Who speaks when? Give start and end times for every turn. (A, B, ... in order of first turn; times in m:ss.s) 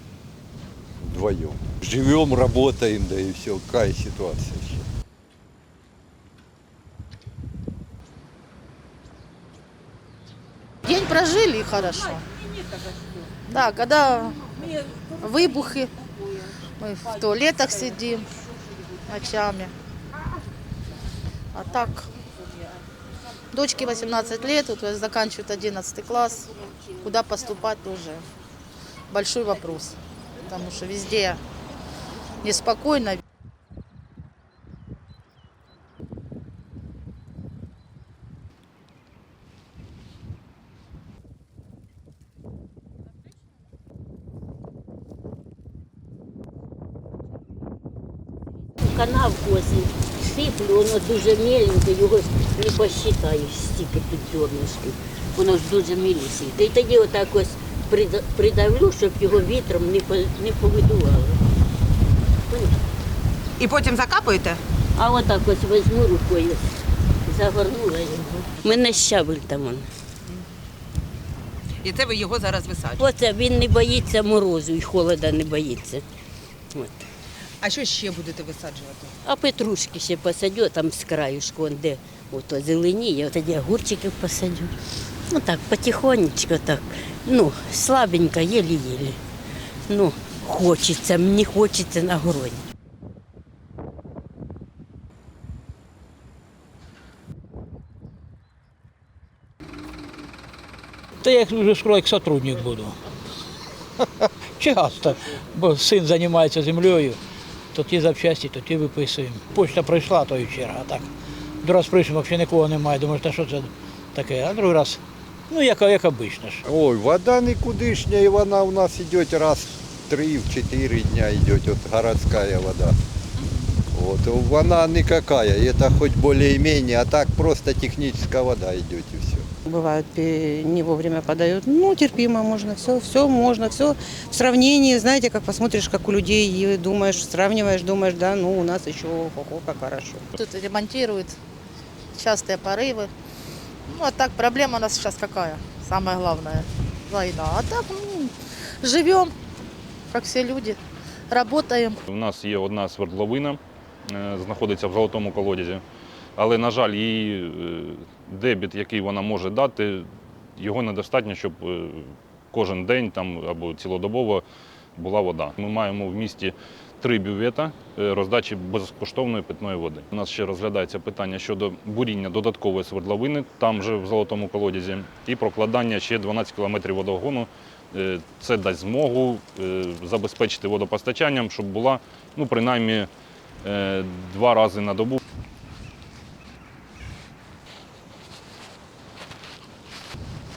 0:01.0-0:04.8 A
0:10.8-0:12.2 B
0:13.5-0:14.5 B
0:15.2-0:15.9 B
0:16.8-0:18.3 B
0:19.0-0:19.7 B
0:21.5-0:22.1 B
0:23.5-0:26.5 B
0:27.0-0:28.2 B
0:29.1-0:31.4 B
0:32.4-0:33.2 B
0:48.9-1:01.4 C
1:02.5-1:02.8 C
1:03.6-1:04.5 D
1:05.0-1:06.6 C
1:07.3-1:09.9 C
1:11.9-1:12.8 D
1:13.0-1:16.0 C
1:17.6-1:19.0 D
1:19.2-1:24.7 C
1:25.3-1:29.2 C
1:29.9-1:32.6 C
1:41.2-1:43.0 E
1:44.6-1:47.2 E
1:47.7-1:51.1 E
1:51.6-1:56.6 E
1:56.6-2:02.9 A
2:03.9-2:09.4 A
2:09.7-2:20.2 F
2:20.3-2:21.4 B
2:22.1-2:23.1 B
2:23.9-2:29.3 B
2:30.1-2:30.8 B
2:31.3-2:32.0 B
2:32.1-2:35.8 G
2:36.4-2:44.4 G
2:45.0-3:03.1 G
3:03.6-3:05.2 G